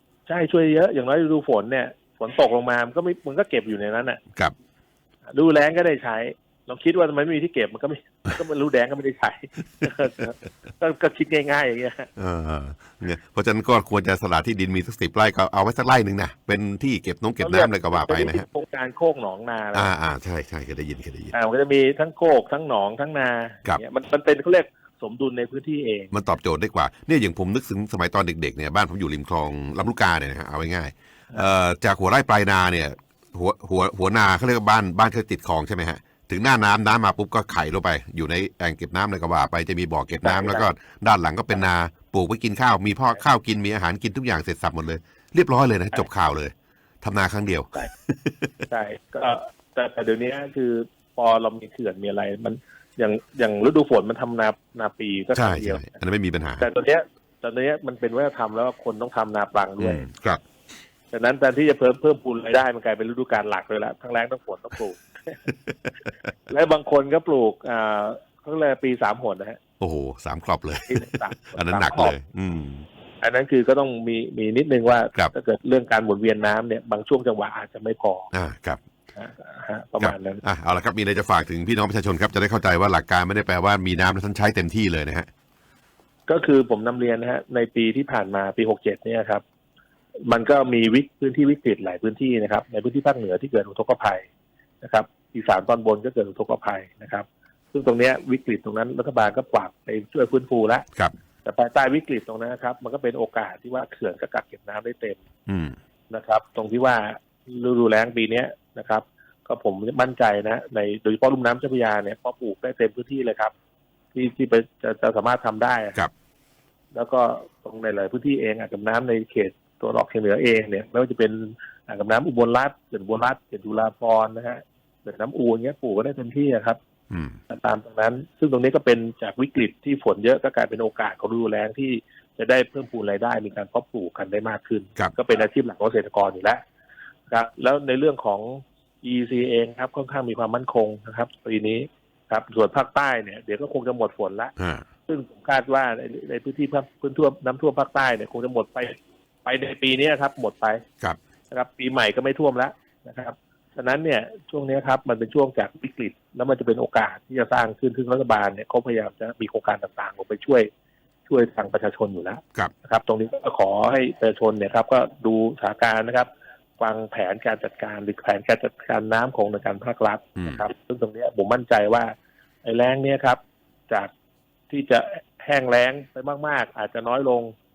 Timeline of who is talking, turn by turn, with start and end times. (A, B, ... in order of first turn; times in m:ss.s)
0:00.3-0:04.2 A
0:05.3-0:12.1 A
0:12.2-0:18.5 B
0:17.4-0:19.9 A
0:19.8-0:21.3 B
0:21.3-0:26.1 A
0:26.1-0:48.7 B
0:40.2-0:40.7 A
0:48.7-0:56.0 A
0:55.4-0:56.7 B
0:56.6-1:00.1 A
0:59.8-1:00.4 B
1:01.1-1:05.4 A
1:06.5-1:09.6 A
1:09.8-1:12.9 B
1:10.9-1:12.2 A
1:13.2-1:18.3 A
1:18.3-1:18.8 B
1:19.2-1:20.4 A
1:20.0-1:25.3 B
1:26.3-1:29.4 A
1:30.3-1:34.3 A
1:34.8-1:40.9 A
1:41.4-1:45.2 A
1:45.5-1:45.8 B
1:46.1-1:53.5 A
1:54.1-1:56.0 A
1:56.9-2:06.8 A
2:07.1-2:07.4 B
2:07.5-2:16.6 A
2:17.3-2:24.5 A
2:24.6-2:24.9 B
2:25.1-2:30.8 A
2:31.5-2:40.7 A
2:41.3-2:54.1 A
2:50.4-2:50.6 B
2:54.7-2:57.5 A